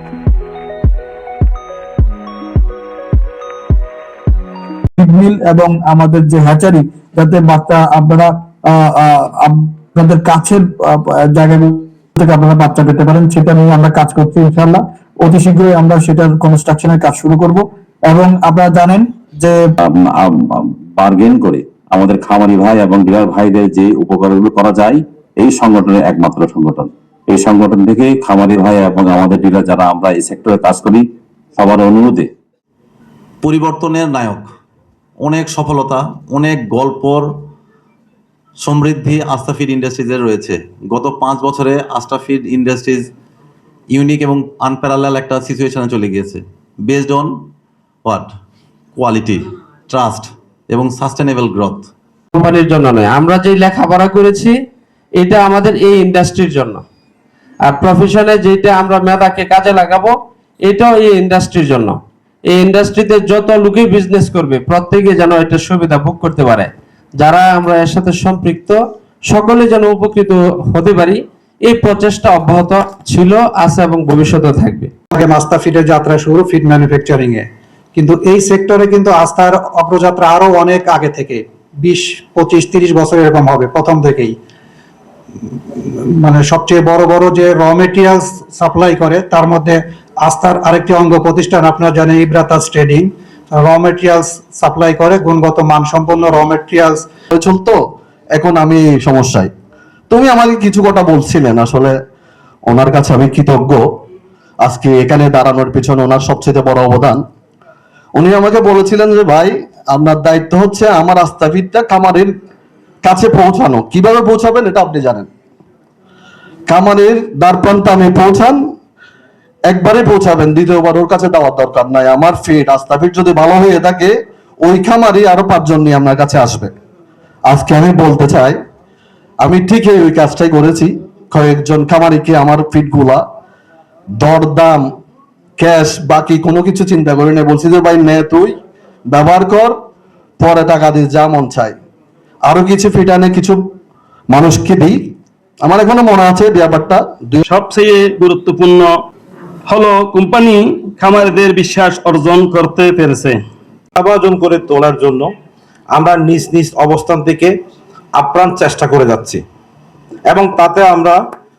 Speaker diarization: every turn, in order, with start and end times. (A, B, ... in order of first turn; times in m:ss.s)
0:05.0-0:19.7 A
0:19.8-0:32.3 B
0:33.4-0:34.5 C
0:35.2-0:37.2 C
0:38.6-0:43.1 C
0:43.9-0:47.3 C
0:49.0-0:51.9 C
0:52.3-0:54.5 D
0:55.2-0:56.8 D
0:57.6-1:00.1 D
1:00.6-1:02.0 D
1:02.5-1:14.9 D
1:15.1-1:24.4 E
1:25.7-1:37.0 E
1:37.3-1:37.8 F
1:38.3-1:39.5 F
1:40.1-1:41.9 F
1:42.6-1:43.8 F
1:44.6-1:47.2 F
1:48.1-1:52.3 F
1:53.0-1:55.3 F
1:56.7-1:58.6 F
1:59.7-2:06.7 F
2:07.4-2:08.5 F
2:09.4-2:13.2 F
2:14.2-2:14.8 F
2:15.6-2:18.6 F
2:19.1-2:19.7 F
2:20.4-2:21.7 F
2:22.4-2:23.6 F
2:24.3-2:25.0 F
2:25.6-2:27.4 F
2:27.4-2:28.9 G
2:29.7-2:33.4 G
2:34.0-2:35.2 H
2:34.4-2:35.2 G
2:36.0-2:37.5 H
2:36.0-2:37.4 G
2:38.2-2:39.3 G
2:38.2-2:39.4 H
2:40.3-2:41.0 H
2:40.4-2:41.1 G